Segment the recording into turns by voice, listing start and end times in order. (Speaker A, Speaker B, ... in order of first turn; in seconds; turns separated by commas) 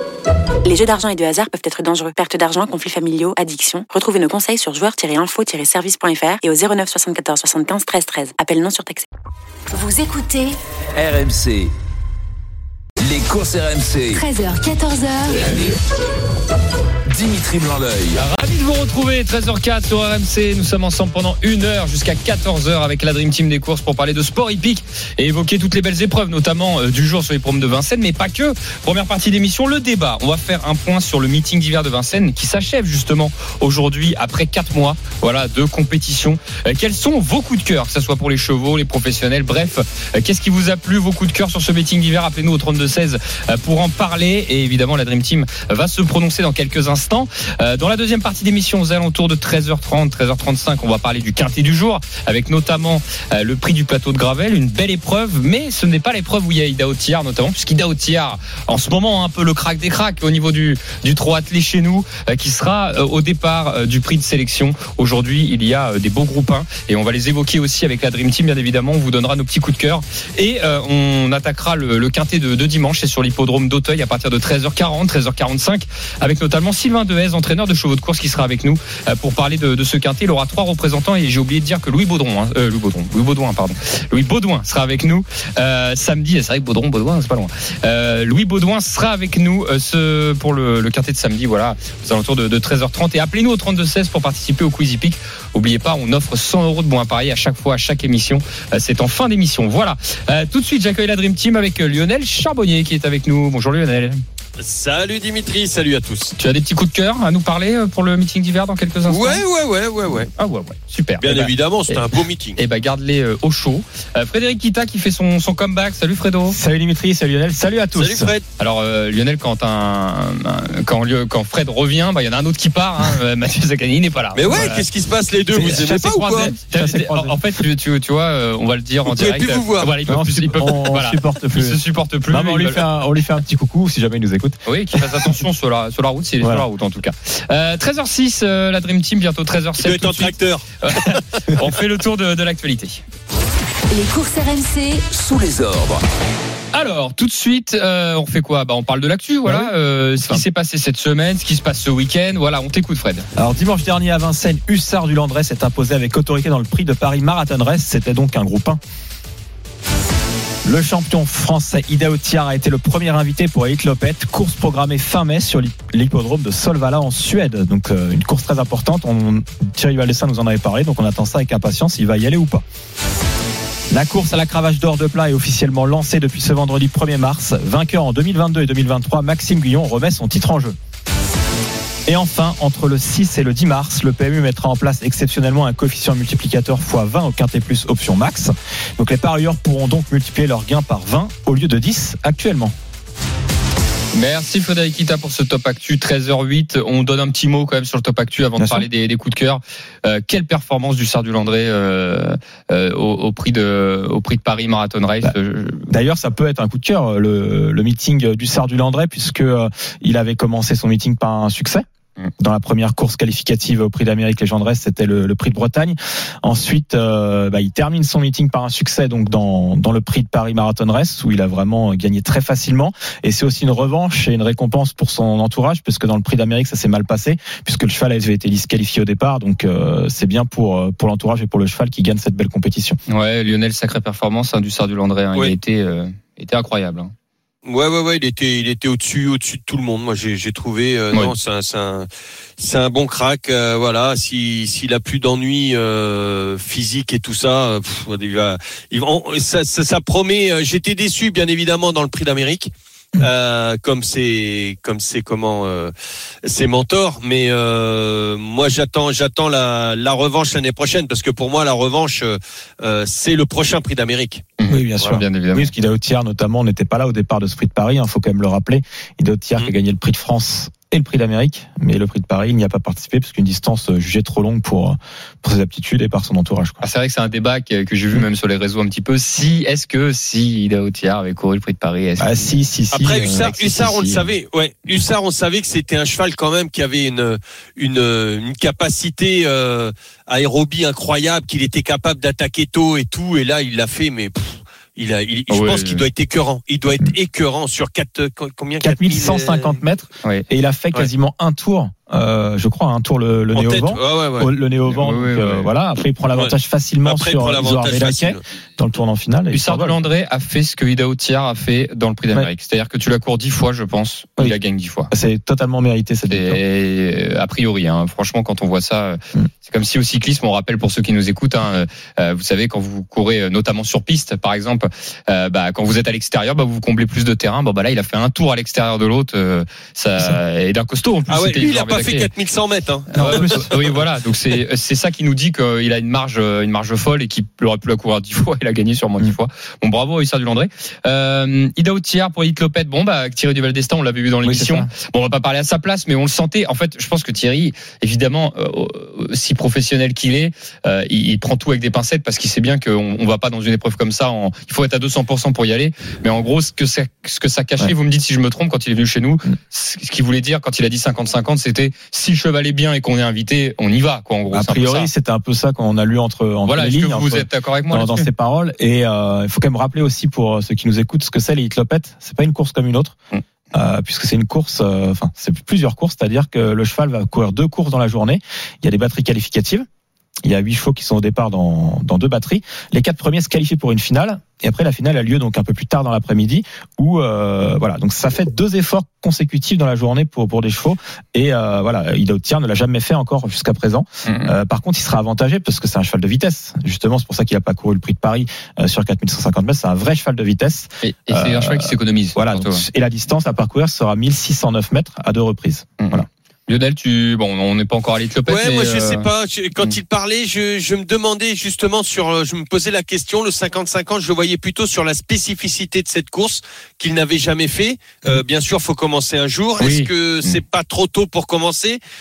Speaker A: 0.6-9.1, Speaker B: 9.7-10.6, Speaker C: 10.9-11.7, Speaker C: 13.0-14.2, Speaker B: 14.1-15.4, Speaker C: 17.1-18.2, Speaker D: 18.1-104.2, Speaker E: 104.6-106.3, Speaker D: 106.4-109.4, Speaker E: 109.1-110.3, Speaker D: 110.3-116.6, Speaker E: 111.2-112.6, Speaker F: 116.5-118.3, Speaker E: 117.9-118.5, Speaker D: 118.6-124.8, Speaker E: 124.3-126.5, Speaker F: 125.5-127.6, Speaker D: 126.7-132.8, Speaker E: 129.1-129.9, Speaker F: 130.1-135.4, Speaker D: 134.7-143.0, Speaker E: 139.8-141.2, Speaker B: 143.9-145.0, Speaker C: 145.1-146.0, Speaker D: 146.7-153.3, Speaker F: 149.4-150.4, Speaker F: 153.3-158.8, Speaker F: 160.6-172.6, Speaker F: 173.9-180.8, Speaker F: 182.1-192.7, Speaker D: 194.1-205.9, Speaker F: 198.6-198.8, Speaker F: 205.9-211.8, Speaker F: 212.4-233.0, Speaker D: 233.1-237.1, Speaker E: 237.6-242.1, Speaker E: 242.6-255.9, Speaker E: 256.4-264.4, Speaker D: 264.6-265.7, Speaker F: 264.7-276.8, Speaker D: 276.8-282.5, Speaker F: 282.2-284.2, Speaker E: 282.9-299.8, Speaker D: 283.2-284.0, Speaker D: 295.5-296.1, Speaker F: 298.8-310.0, Speaker E: 303.5-304.5, Speaker D: 304.9-305.7, Speaker E: 307.0-308.4, Speaker D: 309.5-315.1, Speaker F: 315.1-316.6, Speaker D: 316.3-332.3, Speaker E: 331.3-333.9, Speaker D: 333.1-365.1, Speaker F: 333.2-333.7, Speaker F: 344.4-344.9, Speaker F: 364.5-373.2, Speaker D: 366.7-368.3, Speaker F: 373.7-379.9, Speaker F: 380.4-406.3, Speaker D: 394.2-394.5, Speaker D: 401.0-402.8, Speaker D: 406.0-409.3, Speaker E: 408.5-422.0, Speaker D: 419.8-420.1